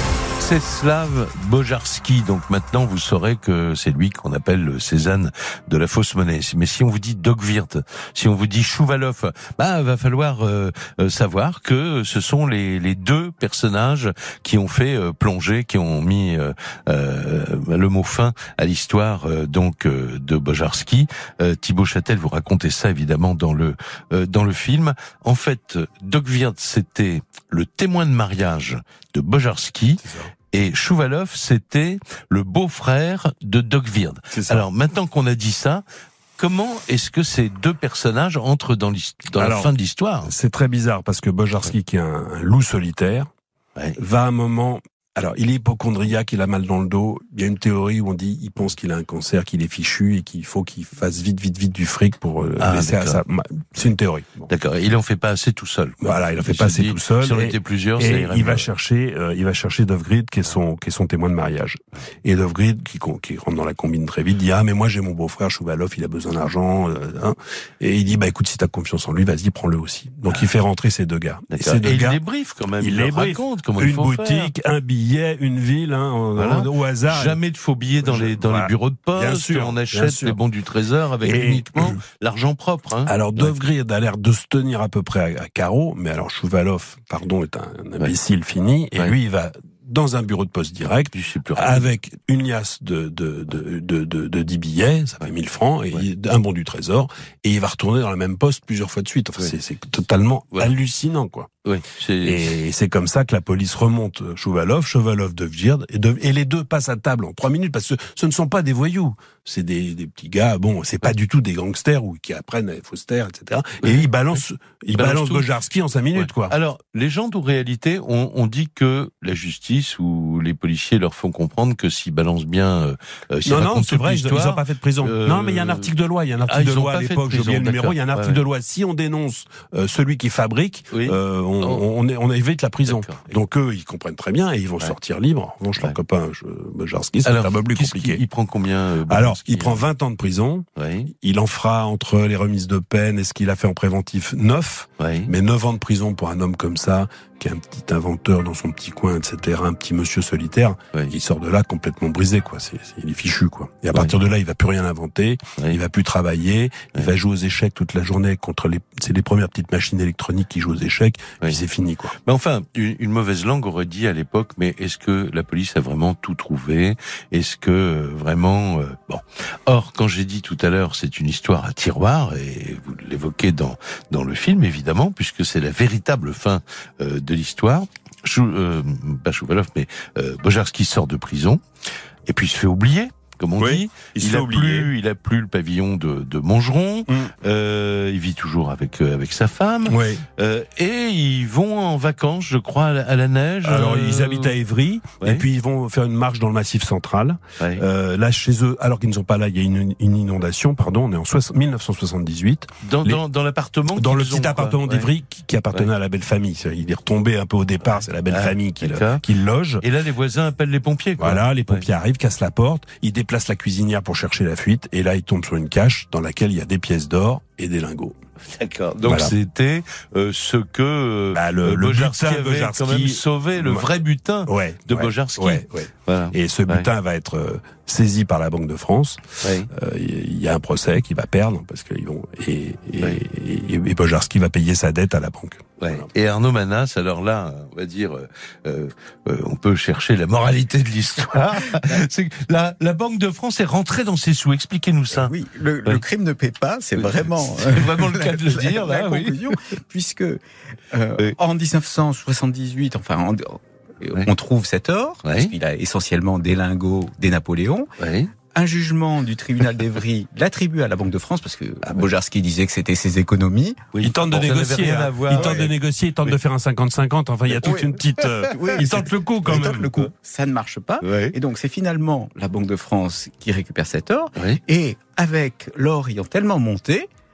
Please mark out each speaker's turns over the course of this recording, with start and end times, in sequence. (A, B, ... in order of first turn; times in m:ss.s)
0:00.4-0:35.8 A
0:30.0-0:30.3 B
0:34.3-0:34.7 B
0:36.4-0:40.3 A
0:39.4-0:39.7 B
0:40.2-0:43.3 B
0:44.0-0:54.5 B
0:52.6-0:53.2 A
0:54.5-0:58.7 A
0:56.0-1:12.2 B
1:11.5-1:14.5 A
1:12.8-1:17.4 B
1:16.4-1:23.5 A
1:18.0-1:20.4 B
1:21.2-1:22.0 B
1:23.1-1:41.5 B
1:31.1-1:31.9 A
1:41.7-1:42.5 A
1:42.2-1:56.6 B
1:55.0-1:55.5 A
1:56.2-2:08.4 A
2:03.5-2:18.2 B
2:10.9-2:11.8 A
2:12.9-2:13.3 A
2:17.2-2:19.9 A
2:19.1-2:42.2 B
2:20.8-2:21.1 A
2:25.0-2:25.3 A
2:42.2-3:01.6 A
3:02.3-3:14.5 A
3:03.6-3:04.9 B
3:07.1-3:07.3 B
3:09.9-3:10.2 B
3:13.6-3:23.2 B
3:22.8-3:25.1 A
3:24.0-3:29.8 B
3:28.3-3:29.2 A
3:29.8-3:31.8 A
3:31.2-3:38.2 B
3:38.5-3:46.9 A
3:39.0-3:39.4 B
3:41.3-3:43.9 B
3:44.5-3:56.1 B
3:49.4-3:49.7 A
3:55.8-4:05.3 A
4:05.1-4:10.4 C
4:07.0-4:09.6 A
4:10.9-4:17.9 C
4:15.2-4:15.5 A
4:18.0-4:18.3 A
4:18.5-4:23.8 C
4:23.9-4:25.7 A
4:24.0-4:30.1 B
4:27.6-4:37.1 C
4:31.0-4:31.4 A